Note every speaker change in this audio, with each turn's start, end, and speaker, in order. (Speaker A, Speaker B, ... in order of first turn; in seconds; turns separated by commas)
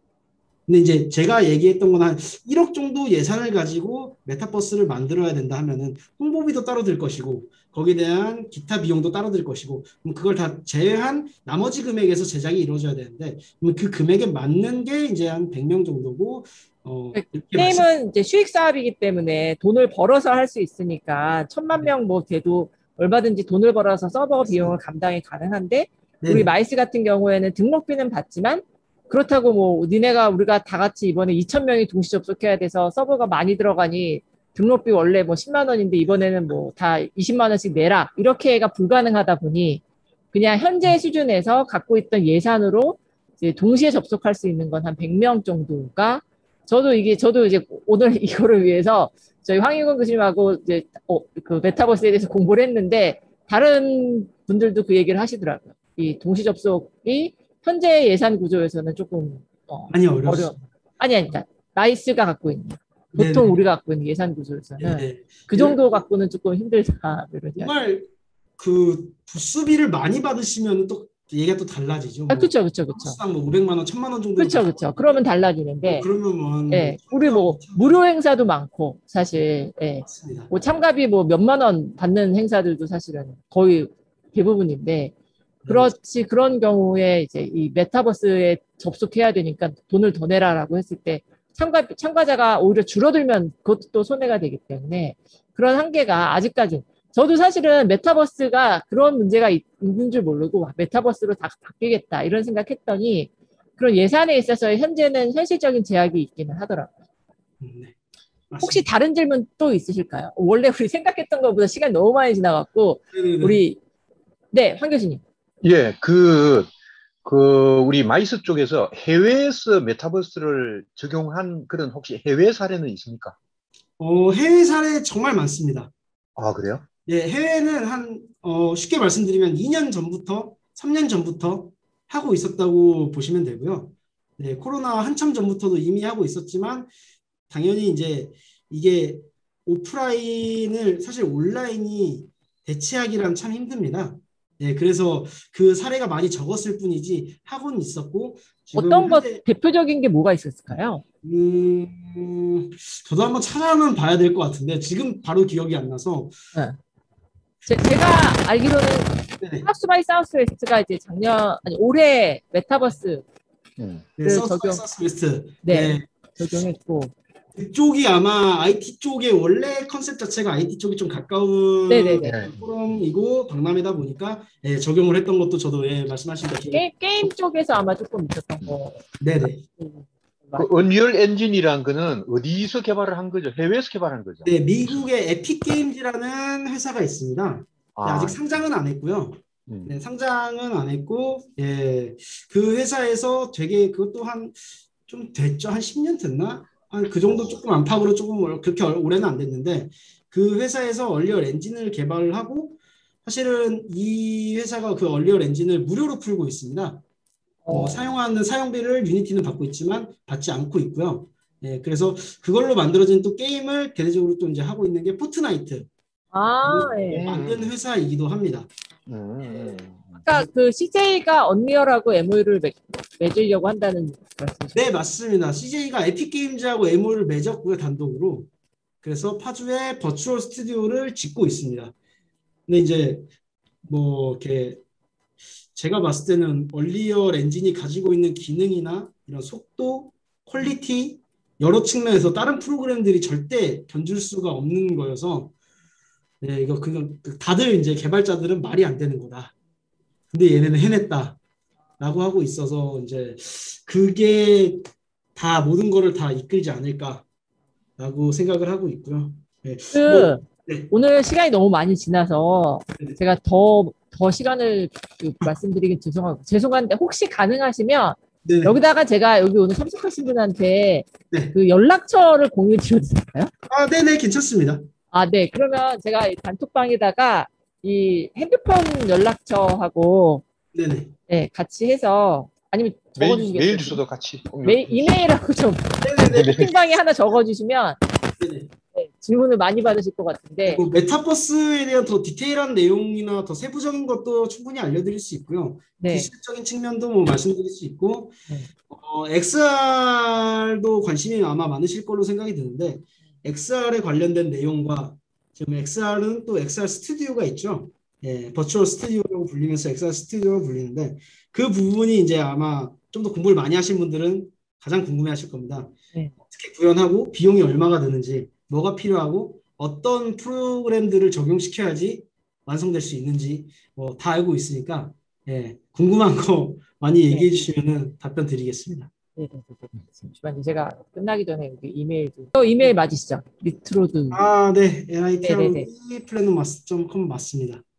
Speaker A: 0.7-17.9, Speaker B: 17.1-67.7, Speaker A: 26.2-26.5, Speaker A: 36.0-36.5, Speaker A: 59.9-60.6, Speaker A: 63.1-63.6, Speaker A: 64.8-66.0, Speaker A: 67.5-75.2, Speaker B: 72.3-73.2, Speaker B: 74.4-76.1, Speaker A: 75.8-78.0, Speaker B: 76.7-85.1, Speaker A: 80.0-80.5, Speaker A: 85.6-86.0, Speaker B: 85.7-106.9, Speaker A: 107.6-108.0, Speaker A: 108.5-108.8, Speaker B: 108.6-113.8, Speaker A: 113.1-113.6, Speaker B: 114.5-115.2, Speaker C: 115.6-116.7, Speaker C: 117.2-123.3, Speaker A: 124.0-125.9, Speaker C: 126.4-126.8, Speaker A: 127.0-136.9, Speaker A: 137.5-149.4, Speaker B: 148.7-151.0, Speaker A: 151.2-156.4, Speaker B: 157.7-163.2, Speaker A: 159.4-159.7, Speaker C: 163.8-164.1, Speaker A: 164.2-166.1, Speaker B: 164.2-164.8, Speaker B: 165.6-167.1, Speaker A: 167.5-176.8, Speaker B: 171.9-172.3, Speaker C: 172.2-172.6, Speaker B: 176.7-180.7, Speaker A: 179.2-179.6, Speaker C: 180.6-185.0, Speaker A: 184.4-207.0, Speaker C: 187.9-188.4, Speaker B: 207.6-208.0, Speaker A: 207.7-215.9, Speaker B: 216.3-217.3, Speaker A: 216.6-218.7, Speaker C: 217.1-217.7, Speaker C: 219.1-220.4, Speaker B: 220.2-224.9, Speaker A: 224.7-228.5, Speaker A: 229.0-231.9, Speaker A: 232.7-233.3, Speaker A: 233.8-234.8, Speaker A: 235.7-245.5, Speaker A: 246.4-249.5, Speaker A: 250.3-251.4, Speaker A: 252.0-257.2, Speaker A: 258.0-260.9, Speaker B: 259.9-273.5, Speaker A: 268.4-268.8, Speaker A: 273.7-274.8, Speaker B: 275.1-280.4, Speaker A: 280.7-281.1, Speaker B: 281.3-284.0, Speaker C: 283.2-285.2, Speaker B: 284.6-288.0, Speaker A: 286.0-286.9, Speaker C: 286.2-286.7, Speaker A: 288.4-288.7, Speaker B: 288.9-290.8, Speaker A: 290.7-329.1, Speaker B: 296.0-296.3, Speaker B: 327.3-327.6, Speaker B: 329.4-334.4, Speaker A: 334.3-337.8, Speaker B: 335.4-335.9